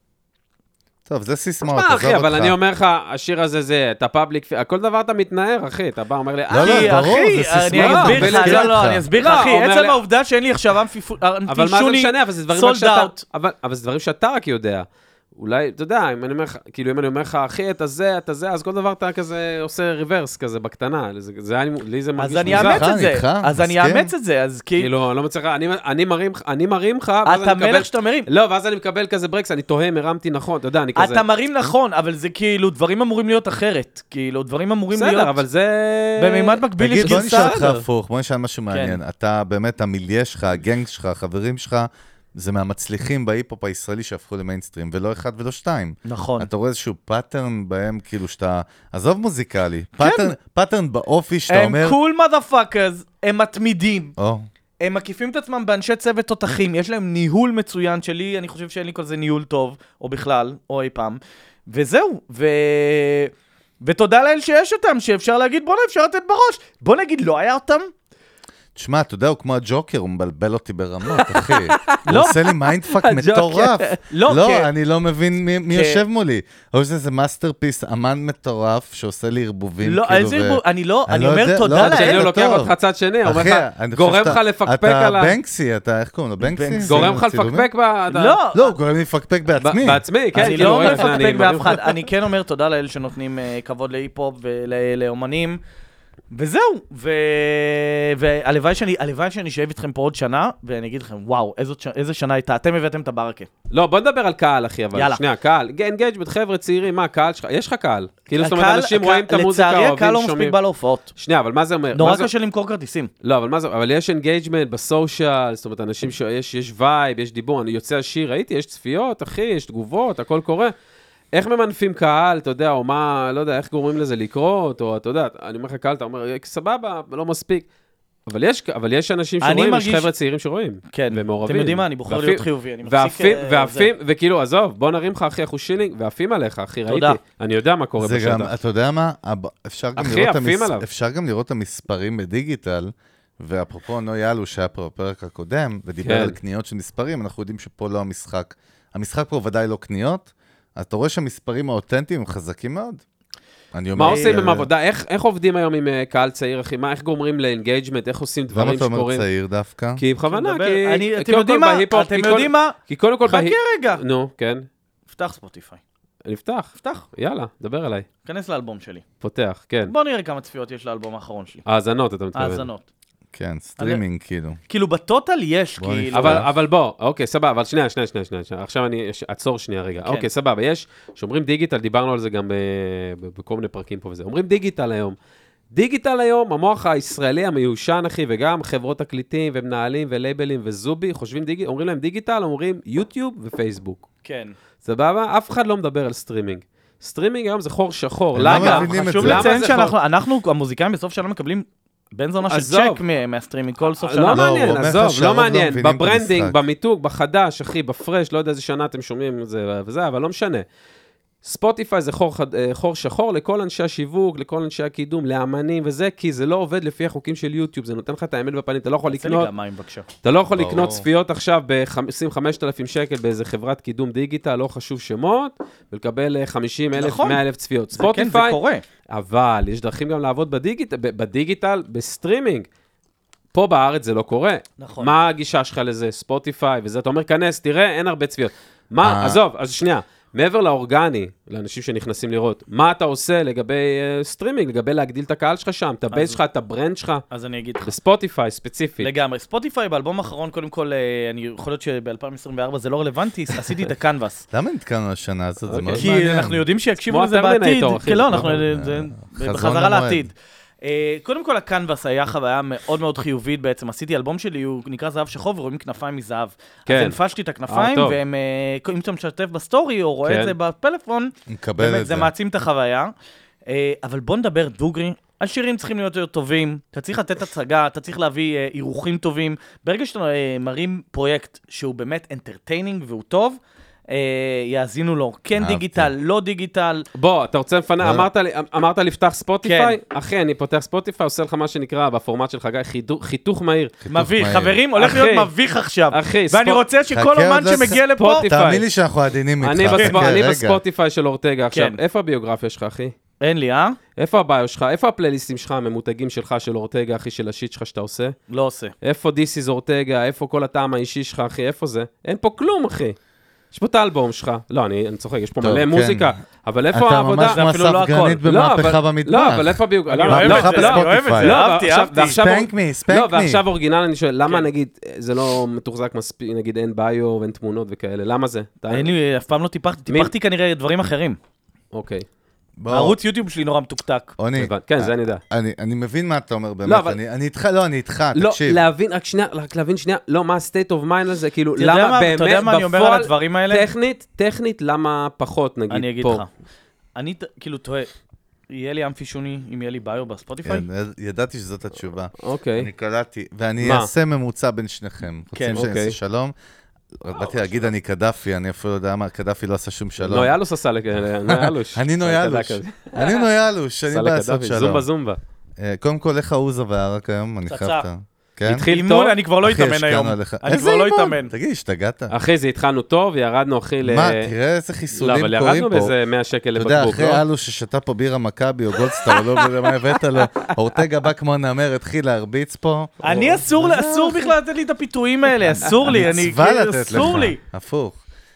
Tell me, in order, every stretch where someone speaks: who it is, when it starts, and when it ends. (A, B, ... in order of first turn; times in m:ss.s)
0:01.1-0:02.6 A
0:01.6-0:07.0 B
0:06.5-0:09.0 A
0:06.6-0:13.2 C
0:07.7-0:10.0 B
0:11.5-0:22.8 B
0:22.2-0:24.9 C
0:22.5-0:24.1 A
0:24.8-0:31.2 B
0:27.2-0:28.3 C
0:31.0-0:35.4 C
0:34.9-0:37.8 B
0:36.2-0:37.6 C
0:36.8-0:52.0 A
0:38.7-0:39.0 C
0:46.0-0:46.5 C
0:50.0-0:50.3 C
0:51.5-0:54.1 C
0:54.2-0:54.5 A
0:54.8-1:07.9 C
1:08.8-1:22.7 A
1:11.1-1:14.0 B
1:12.1-1:12.4 C
1:14.1-1:14.7 C
1:15.7-1:16.0 C
1:19.8-1:22.2 C
1:21.7-1:25.4 B
1:23.2-1:27.7 A
1:26.4-1:27.2 C
1:26.8-1:28.4 B
1:28.1-1:28.7 C
1:28.5-1:30.0 A
1:29.6-1:31.9 B
1:30.3-1:35.6 C
1:30.5-1:31.0 A
1:36.3-1:43.5 C
1:43.7-1:50.6 B
1:44.9-1:45.2 C
1:48.4-1:51.1 C
1:51.2-1:52.3 B
1:51.9-1:53.1 C
1:53.2-2:00.7 B
2:01.3-2:07.6 B
2:08.3-2:18.5 B
2:09.4-2:10.1 C
2:10.9-2:13.9 C
2:16.9-2:17.2 C
2:18.0-2:33.0 A
2:20.0-2:20.8 B
2:26.0-2:26.4 B
2:33.7-2:34.7 A
2:33.9-2:39.2 B
2:34.0-2:34.4 C
2:38.5-2:40.0 A
2:40.0-2:44.7 B
2:40.3-2:44.0 C
2:45.1-2:45.8 C
2:46.2-2:48.1 B
2:46.8-2:47.0 C
2:48.2-2:49.0 C
2:49.2-2:49.9 B
2:49.8-2:51.6 C
2:51.6-2:52.7 B
2:52.3-2:52.8 C
2:53.3-2:54.6 A
2:54.7-2:56.4 C
2:55.8-2:56.5 A
2:56.1-3:05.2 B
3:05.7-3:14.1 B
3:14.2-3:14.5 C
3:14.8-3:19.9 B
3:18.3-3:19.6 A
3:18.5-3:24.5 C
3:22.5-3:23.0 B
3:24.0-3:30.6 B
3:24.3-3:26.6 A
3:31.4-3:39.5 B
3:39.0-3:40.0 C
3:40.2-3:48.6 B
3:40.5-3:41.0 A
3:47.0-3:47.4 C
3:47.9-3:48.8 C
3:49.1-3:52.7 B
3:53.5-4:07.3 B
3:54.8-3:55.2 C
3:59.0-3:59.4 A
4:06.1-4:06.4 C
4:07.3-4:07.9 C
4:07.8-4:09.1 B
4:09.0-4:14.4 C
4:14.5-4:16.6 A
4:15.7-4:16.1 B
4:16.0-4:33.1 C
4:17.0-4:18.5 B
4:18.3-4:20.3 A
4:26.9-4:27.2 B
4:27.7-4:28.2 B
4:30.2-4:30.5 B
4:31.5-4:32.3 A
4:33.7-4:47.0 C
4:45.6-4:46.1 A
4:47.1-4:53.9 B
4:48.0-4:48.3 A
4:49.6-4:50.0 C
4:54.0-4:54.8 A
4:54.1-4:58.5 C
4:55.0-4:55.5 B
4:56.1-4:56.8 B
4:57.1-5:00.8 A
4:58.0-4:58.8 B
4:59.6-5:03.1 B
4:59.9-5:00.3 C
5:01.7-5:02.0 C
5:03.4-5:04.0 C
5:04.2-5:08.3 B
5:08.5-5:08.9 C
5:09.0-5:13.2 B
5:13.7-5:17.6 B
5:15.6-5:16.3 A
5:16.9-5:21.6 A
5:17.4-5:18.4 C
5:18.4-5:29.1 B
5:20.1-5:22.4 C
5:22.2-5:23.6 A
5:28.9-5:31.4 C
5:31.9-5:32.2 B
5:32.8-5:33.2 A
5:32.9-5:34.3 C
5:34.4-5:38.8 A
5:34.6-5:35.4 B
5:36.8-5:37.2 B
5:38.4-5:46.4 B
5:41.8-5:43.9 C
5:45.9-5:46.5 C
5:47.2-5:48.1 C
5:48.7-5:50.8 C
5:50.6-5:56.5 A
5:52.4-5:52.9 B
5:53.8-5:54.1 B
5:55.5-5:55.8 C
5:55.7-5:56.2 B
5:57.2-6:00.5 A
5:57.5-5:57.8 B
6:00.2-6:03.5 B
6:01.4-6:05.0 A
6:04.1-6:05.4 B
6:05.8-6:08.9 A
6:07.7-6:08.1 C
6:08.6-6:09.4 B
6:08.8-6:11.5 C
6:09.6-6:12.3 A
6:12.3-6:14.5 B
6:14.0-6:16.1 A
6:15.1-6:17.4 B
6:16.8-6:23.2 A
6:23.2-6:27.6 C
6:23.2-6:23.6 B
6:23.7-6:24.4 A
6:25.7-6:28.2 A